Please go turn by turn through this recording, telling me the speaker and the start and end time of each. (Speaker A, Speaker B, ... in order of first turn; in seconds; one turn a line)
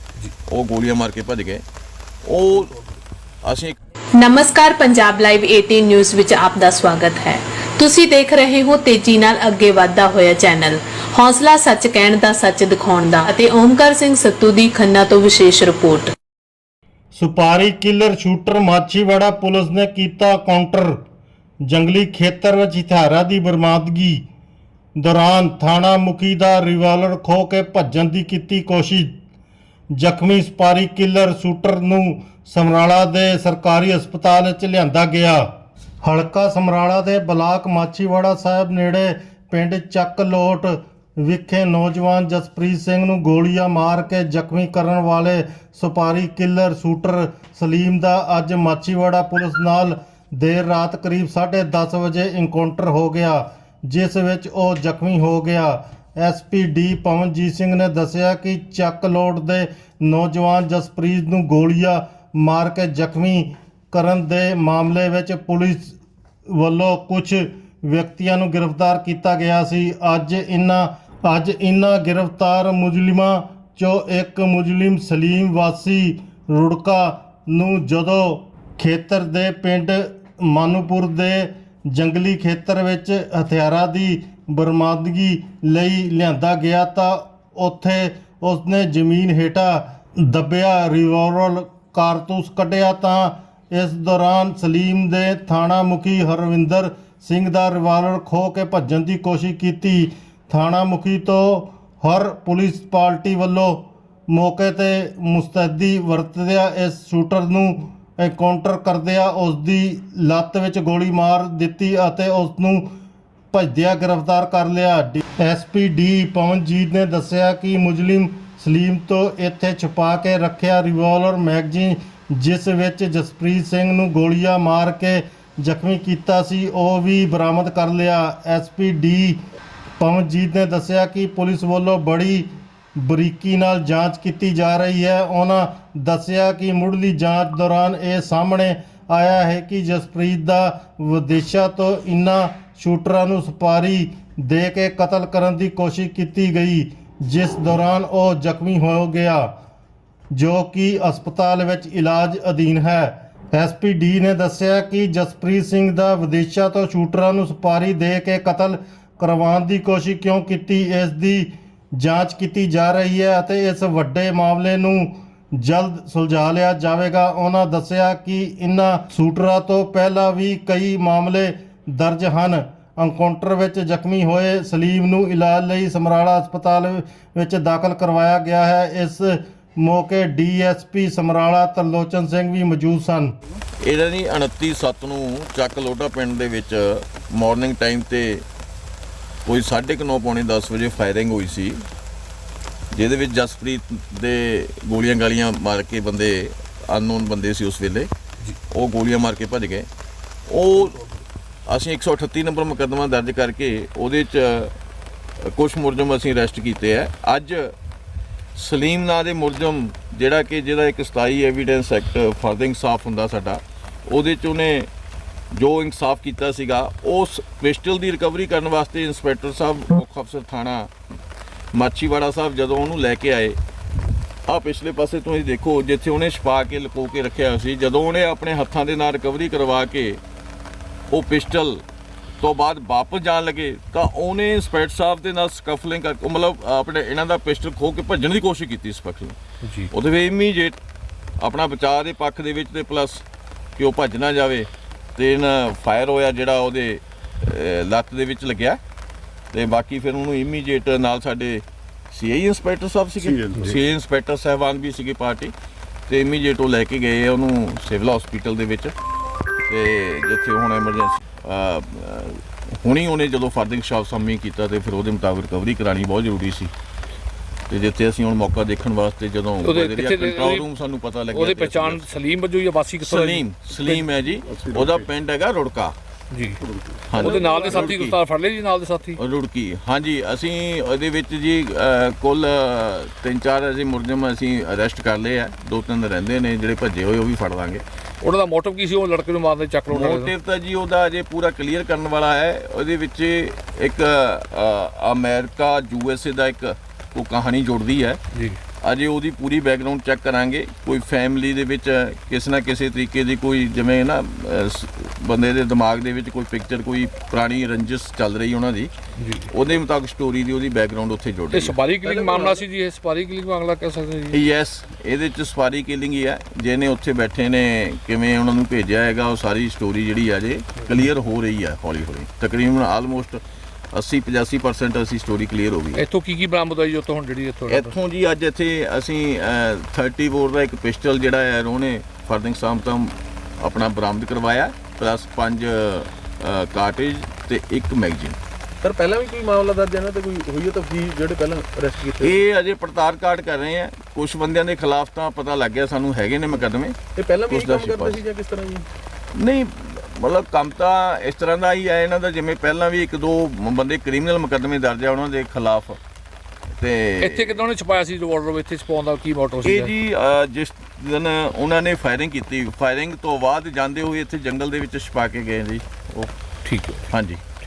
Speaker A: 0.5-1.6
Speaker A: 2.2-2.8
Speaker A: 3.4-3.8
Speaker B: 4.2-16.1
Speaker C: 17.1-21.0
Speaker C: 21.6-24.2
Speaker C: 25.0-29.1
Speaker C: 29.9-35.5
Speaker C: 36.0-66.0
Speaker C: 66.5-112.9
Speaker C: 113.5-129.4
Speaker C: 130.0-132.5
Speaker C: 133.0-149.5
Speaker C: 150.3-183.3
Speaker A: 183.8-188.4
Speaker A: 189.4-191.8
Speaker A: 192.9-198.1
Speaker A: 198.7-199.9
Speaker A: 200.5-201.0
Speaker A: 201.7-204.7
Speaker A: 205.5-207.7
Speaker A: 208.5-214.9
Speaker A: 215.5-220.9
Speaker A: 221.7-223.6
Speaker A: 224.5-230.2
Speaker A: 231.1-231.8
Speaker A: 232.4-239.3
Speaker D: 239.6-239.9
Speaker A: 239.9-240.8
Speaker A: 241.4-243.2
Speaker A: 243.8-248.8
Speaker A: 249.5-255.5
Speaker A: 256.1-258.9
Speaker A: 259.7-266.7
Speaker A: 267.7-272.2
Speaker D: 269.6-270.7
Speaker D: 271.3-274.1
Speaker A: 273.0-275.9
Speaker D: 276.3-276.6
Speaker A: 277.1-278.2
Speaker D: 277.1-279.2
Speaker E: 277.2-277.9
Speaker A: 279.2-287.8
Speaker D: 288.2-290.3
Speaker A: 289.9-298.2
Speaker D: 298.3-298.6
Speaker A: 298.8-308.9
Speaker D: 309.2-309.5
Speaker A: 309.5-311.8
Speaker D: 311.5-314.4
Speaker E: 312.0-312.6
Speaker A: 314.3-323.4
Speaker A: 323.9-326.0
Speaker D: 325.9-327.9
Speaker A: 327.7-338.4
Speaker E: 338.8-342.4
Speaker A: 342.2-347.0
Speaker E: 347.1-348.9
Speaker A: 347.5-348.2
Speaker A: 349.3-356.0
Speaker A: 356.8-357.6
Speaker D: 357.2-359.9
Speaker A: 359.6-366.3
Speaker D: 366.6-367.1
Speaker A: 367.1-367.4